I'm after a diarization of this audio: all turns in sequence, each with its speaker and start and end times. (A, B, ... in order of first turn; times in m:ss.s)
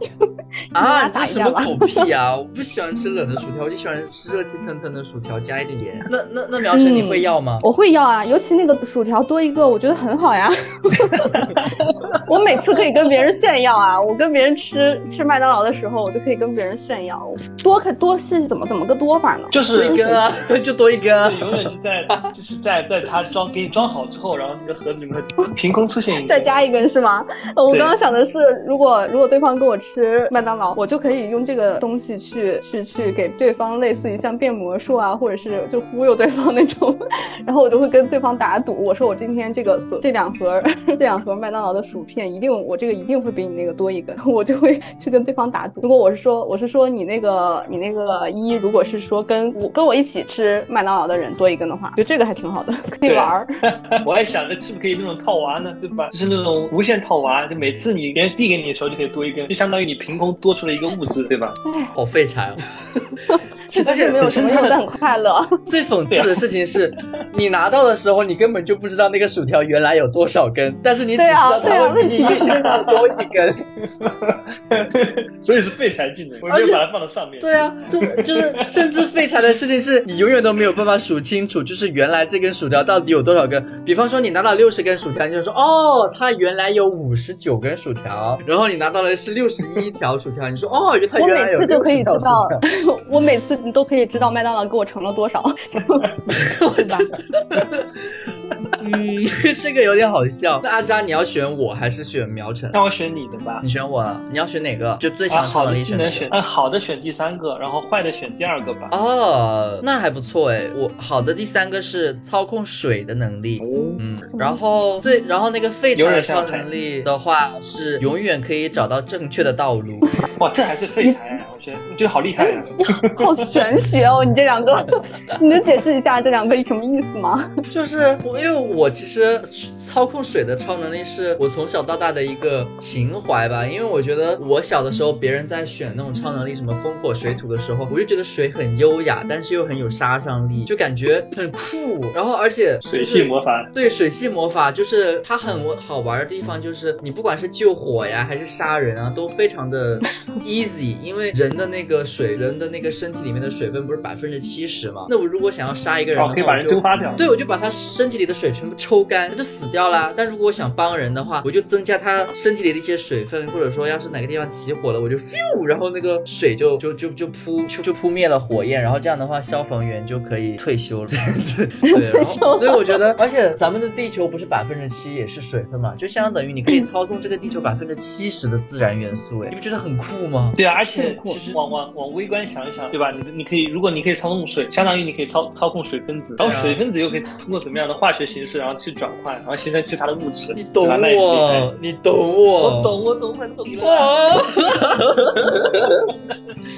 0:00.2-0:02.0 A
0:00.7-0:07.6 B
0:06.7-0:11.6 A
0:11.5-0:12.0 C
0:12.2-0:19.6 A
0:19.5-0:20.3 C
0:19.7-0:21.7 B
0:21.2-0:26.5 C
0:26.2-0:53.5 A
0:27.7-0:28.0 C
0:53.1-1:01.6 C
1:01.6-1:01.9 A
1:02.0-1:03.1 B
1:03.3-1:05.6 A
1:03.7-1:04.2 B
1:03.8-1:04.8 C
1:05.7-1:13.6 B
1:06.1-1:06.4 C
1:11.2-1:12.9 A
1:12.3-1:13.1 C
1:13.8-1:19.1 C
1:16.5-1:16.8 B
1:17.4-1:32.6 B
1:31.2-1:36.1 A
1:36.3-1:38.2 B
1:36.8-1:37.1 A
1:38.8-1:42.8 B
1:42.7-1:43.6 C
1:43.6-1:46.3 B
1:45.3-1:48.9 C
1:48.9-2:00.1 B
1:53.6-1:54.0 C
1:54.3-1:54.6 A
1:56.0-1:56.7 C
2:00.4-2:03.6 C
2:02.4-2:07.5 A
2:07.7-3:00.6 B
2:22.8-2:23.7 C
2:36.1-2:37.2 C
2:51.9-2:53.0 A
3:00.6-3:11.7 C
3:01.0-3:01.4 A
3:06.4-3:06.8 B
3:10.6-3:12.9 B
3:12.6-3:14.6 C
3:13.8-3:16.1 B